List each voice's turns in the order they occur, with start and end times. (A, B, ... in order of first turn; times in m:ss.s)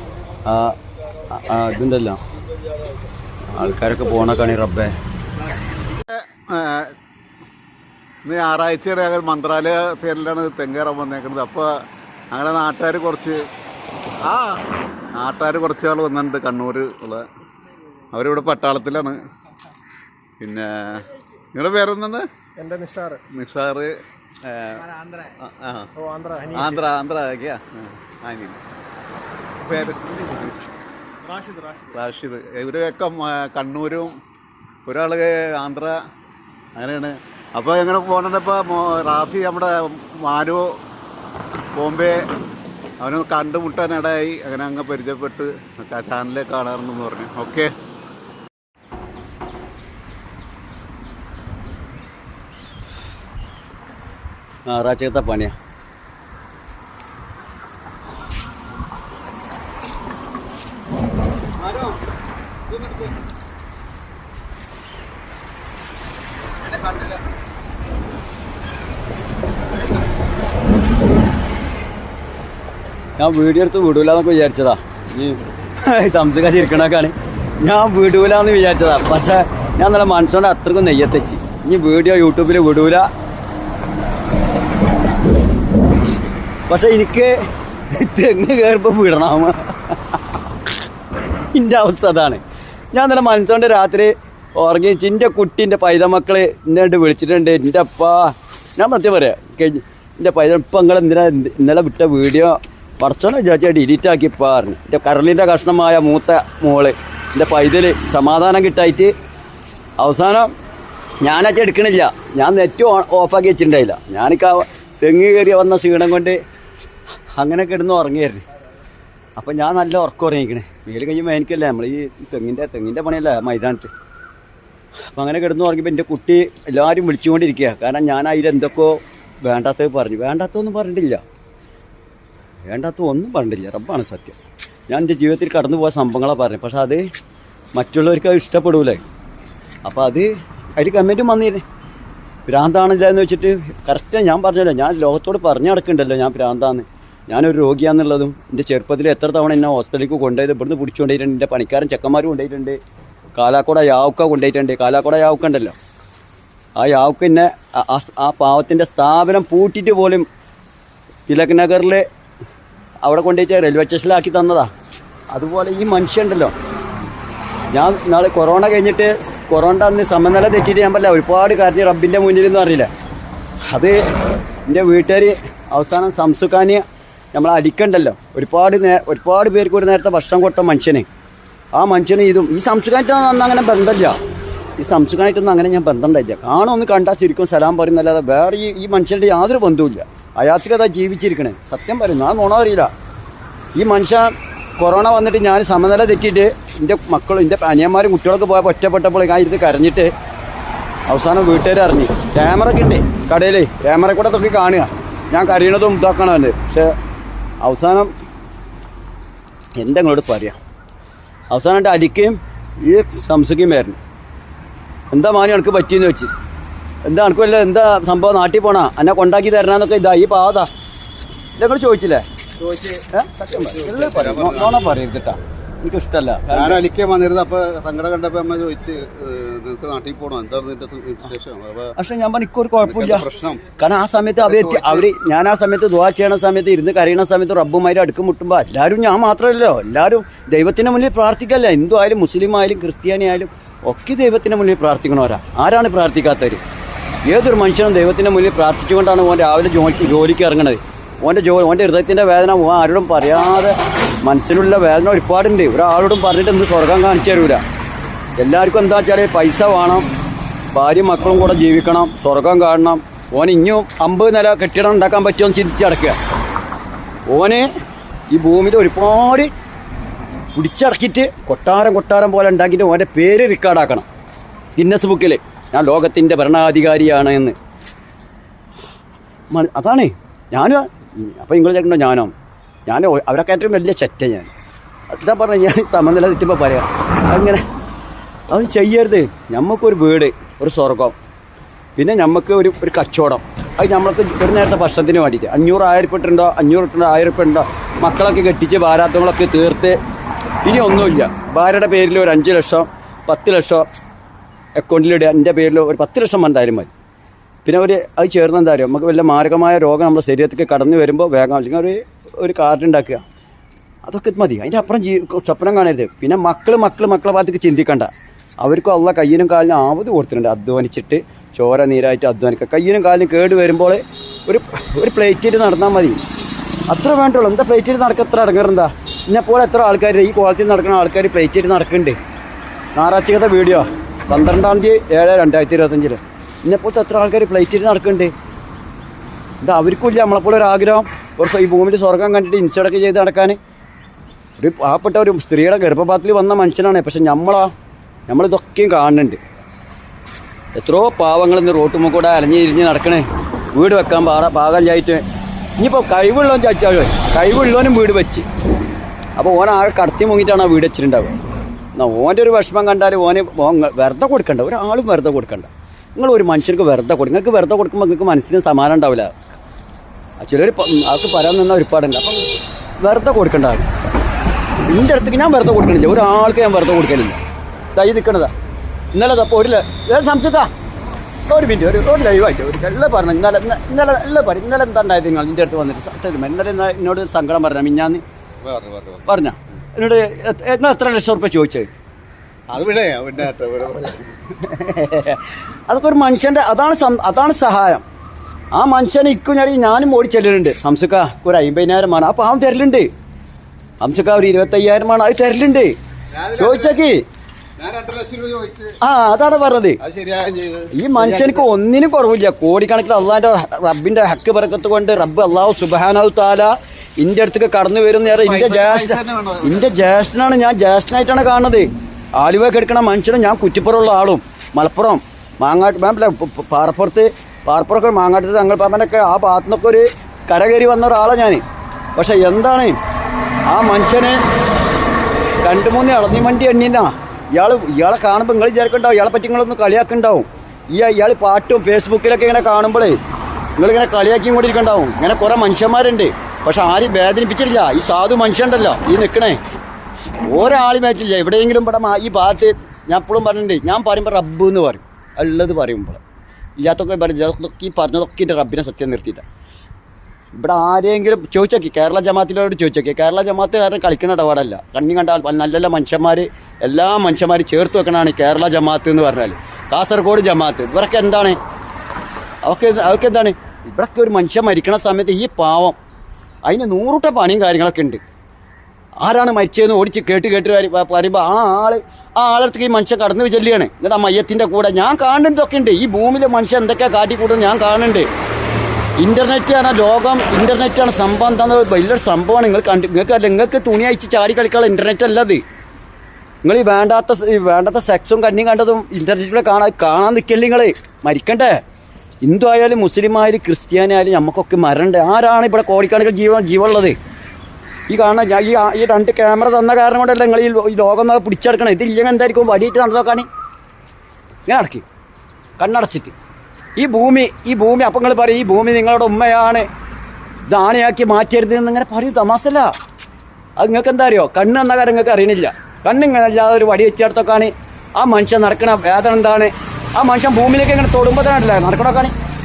0:00.4-0:00.8 A
0:01.3-0:02.2 A
0:03.5-0:05.0 A
0:06.0-0:07.0 B
0:08.2-0:11.8 B
0:12.3-0:13.4 B
0:14.2-0:14.6 B
0:15.2-0:17.3 B
0:18.1-0:19.2 B
0:20.4-0:22.3 B
0:22.6-0:23.2 C
0:23.3-0:25.9 B
0:26.0-0:26.8 C
0:26.5-0:28.6 B
0:29.6-0:30.7 B
0:31.4-0:31.8 C
0:31.9-0:34.2 B
0:34.8-0:36.0 B
0:36.8-0:40.8 B
0:41.7-0:42.2 B
0:43.0-0:47.7 B
0:54.7-0:55.6 A
1:01.6-1:02.0 B
1:02.7-1:03.1 B
1:06.6-1:07.2 B
1:13.2-1:23.1 A
1:26.7-1:27.4 A
1:27.9-1:30.2 A
1:31.5-1:32.4 A
1:32.9-1:49.1 A
1:50.0-1:50.5 A
1:51.2-1:56.4 A
1:57.3-1:58.4 A
1:59.4-2:03.9 A
2:05.1-2:11.2 A
2:12.7-2:14.4 A
2:14.9-2:17.1 A
2:17.8-2:19.0 A
2:19.9-2:21.6 A
2:22.5-2:32.8 A
2:33.4-2:35.8 A
2:36.8-2:40.3 A
2:41.3-2:42.1 A
2:43.0-2:44.7 A
2:45.3-2:46.5 A
2:47.7-2:52.9 A
2:53.7-2:54.1 A
2:54.7-2:56.8 A
2:57.3-3:01.1 A
3:01.8-3:04.2 A
3:04.8-3:12.9 A
3:13.8-3:20.1 A
3:21.1-3:27.0 A
3:27.6-3:28.1 A
3:29.8-3:30.6 A
3:31.5-3:34.0 A
3:35.1-3:36.3 A
3:37.0-3:40.7 A
3:41.6-3:42.3 A
3:42.6-3:43.0 B
3:43.1-3:46.8 A
3:43.6-3:44.8 B
3:46.5-3:51.9 B
3:52.0-3:53.3 A
3:52.8-3:53.6 B
3:53.8-4:06.6 A
3:54.5-3:55.1 B
4:07.3-4:17.6 A
4:18.4-4:20.1 A
4:20.7-4:26.2 A
4:27.3-4:27.7 A
4:28.3-4:29.5 A
4:30.6-4:34.1 A
4:34.8-4:37.6 A
4:39.5-4:42.3 A
4:42.9-4:44.5 A
4:45.1-4:47.6 A
4:48.5-4:51.2 A
4:52.0-5:00.0 A
5:00.6-5:03.9 A
5:04.8-5:06.9 A
5:07.6-5:13.2 A
5:14.0-5:26.2 A
5:26.9-5:32.2 A
5:33.0-5:38.3 A
5:39.6-5:43.6 A
5:44.6-5:47.7 A
5:48.3-5:49.4 A
5:50.8-5:55.2 A
5:55.8-5:58.5 A
5:59.4-6:01.4 A
6:02.0-6:09.3 A
6:10.4-6:12.5 A
6:13.0-6:13.9 A
6:14.9-6:17.4 A
6:18.0-6:18.5 A
6:19.1-6:20.7 A
6:21.5-6:28.2 A
6:28.6-6:29.3 B
6:29.3-6:31.9 A
6:32.7-6:34.2 B
6:34.5-6:38.0 A
6:38.7-6:43.1 A
6:44.0-6:46.0 A
6:46.3-6:47.0 B
6:46.5-6:47.2 A
6:47.8-6:49.0 B
6:49.0-6:50.0 A
6:50.0-6:51.6 B
6:50.9-7:11.6 A
6:58.3-6:59.9 B
7:12.2-7:13.0 A
7:13.7-7:14.4 A
7:15.6-7:23.2 A
7:23.8-7:29.6 A
7:30.4-7:36.2 A
7:36.8-7:39.4 A
7:40.6-7:51.6 A
7:52.6-7:56.0 A
7:56.7-7:58.2 A
7:59.2-8:08.3 A
8:09.2-8:15.6 A
8:16.6-8:21.8 A
8:22.4-8:27.2 A
8:28.1-8:33.5 A
8:34.7-8:35.0 A
8:35.8-8:36.4 A
8:37.0-8:39.9 A
8:40.7-8:42.9 A
8:43.8-8:52.3 A